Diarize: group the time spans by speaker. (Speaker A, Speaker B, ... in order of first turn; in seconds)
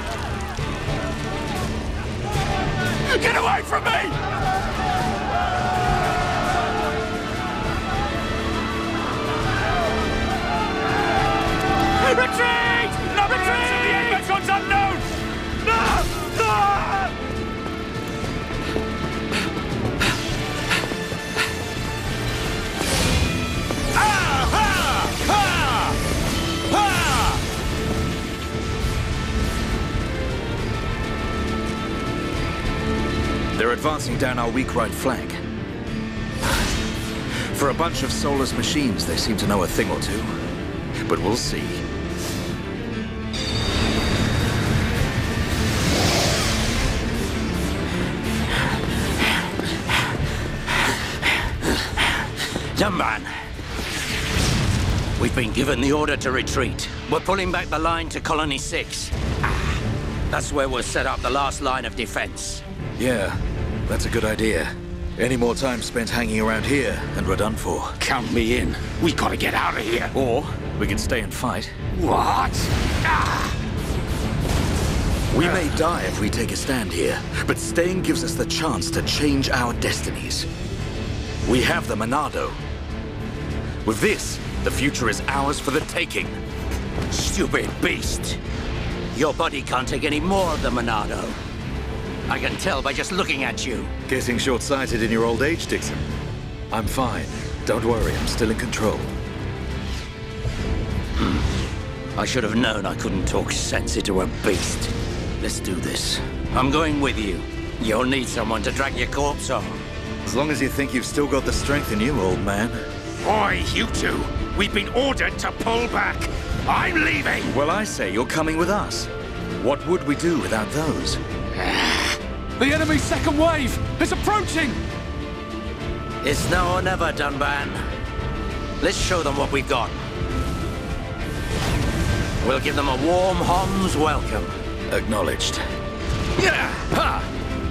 Speaker A: 3.1-4.2, 12.0-15.0, 68.0-70.1, 71.9-73.5, 113.2-117.5, 121.7-122.1
Speaker B: 3.5-3.9, 52.0-53.3, 55.2-59.1, 60.3-62.6, 87.1-88.4, 89.1-91.4, 92.3-93.9, 101.2-101.5, 102.2-109.8, 126.2-127.8, 128.8-130.0, 132.4-134.5, 136.4-137.2
Speaker C: 33.5-35.4, 37.5-40.4, 41.0-41.8, 63.0-68.0, 70.1-71.8, 75.3-80.5, 81.4-82.6, 83.8-86.3, 94.1-96.0, 96.7-99.1, 110.2-112.8, 117.5-121.2, 134.9-135.6
Speaker D: 122.6-124.8